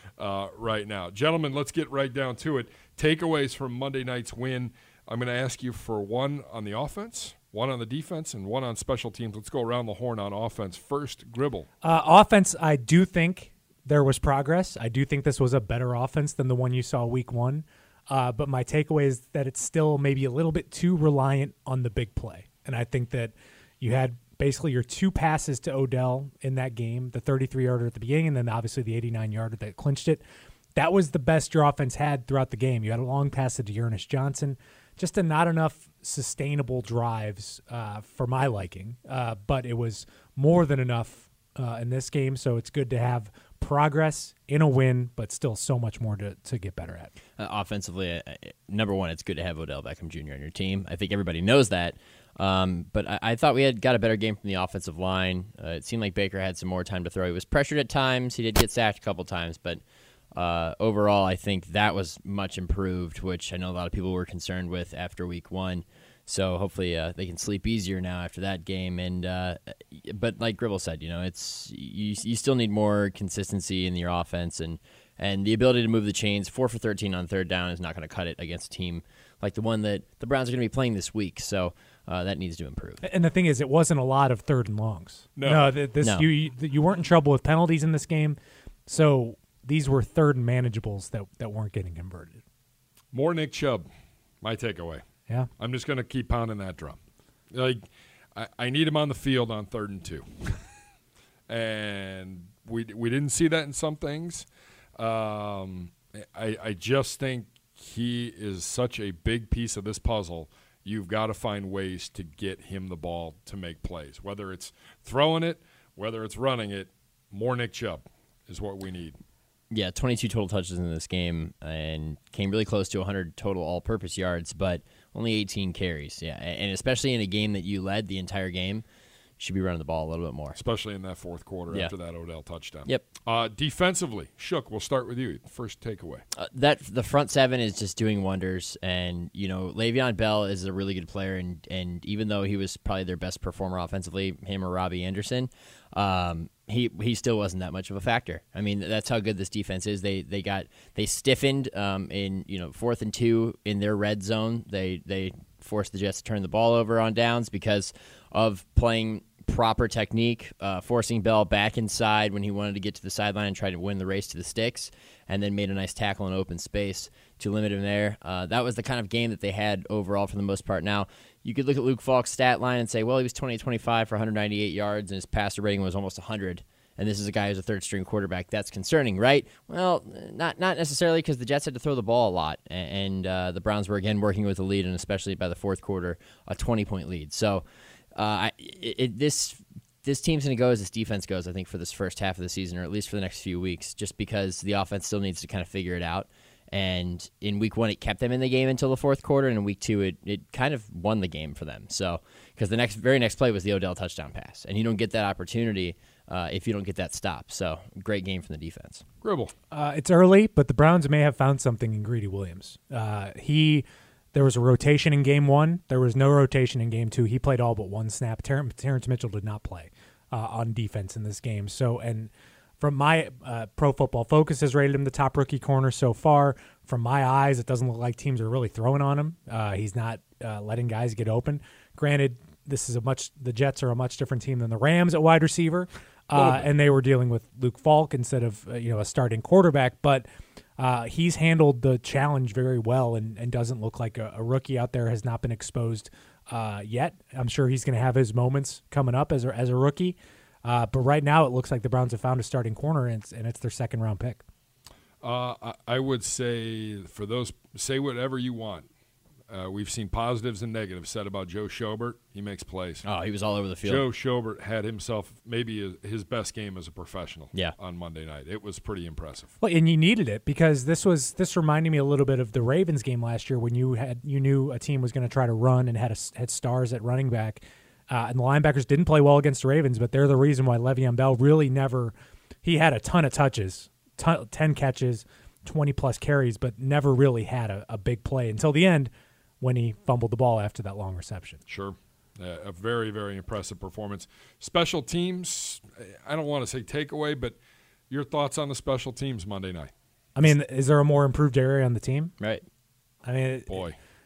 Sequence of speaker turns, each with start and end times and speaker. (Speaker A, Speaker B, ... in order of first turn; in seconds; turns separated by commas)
Speaker A: 0.2-11.7, Speaker B: 11.8-30.2, Speaker B: 30.8-47.1, Speaker C: 47.4-59.8, Speaker C: 60.4-83.0, Speaker B: 83.0-92.4, Speaker A: 85.3-85.7, Speaker C: 86.0-86.3, Speaker A: 93.1-93.8, Speaker A: 94.4-95.0, Speaker A: 95.6-97.0, Speaker A: 97.5-100.6, Speaker A: 101.5-104.5, Speaker A: 105.0-119.2, Speaker C: 119.7-128.8, Speaker C: 129.4-130.6, Speaker A: 130.5-136.2, Speaker C: 136.3-187.6, Speaker C: 188.2-209.0, Speaker A: 209.2-209.5, Speaker B: 209.7-240.2, Speaker A: 236.3-236.7, Speaker B: 240.8-254.4, Speaker A: 255.2-258.9, Speaker A: 259.5-263.0, Speaker C: 263.0-264.0, Speaker A: 263.8-269.5, Speaker B: 269.6-291.6, Speaker A: 291.7-297.6, Speaker A: 298.1-299.9, Speaker B: 300.4-302.3, Speaker B: 303.2-303.8, Speaker A: 303.7-304.0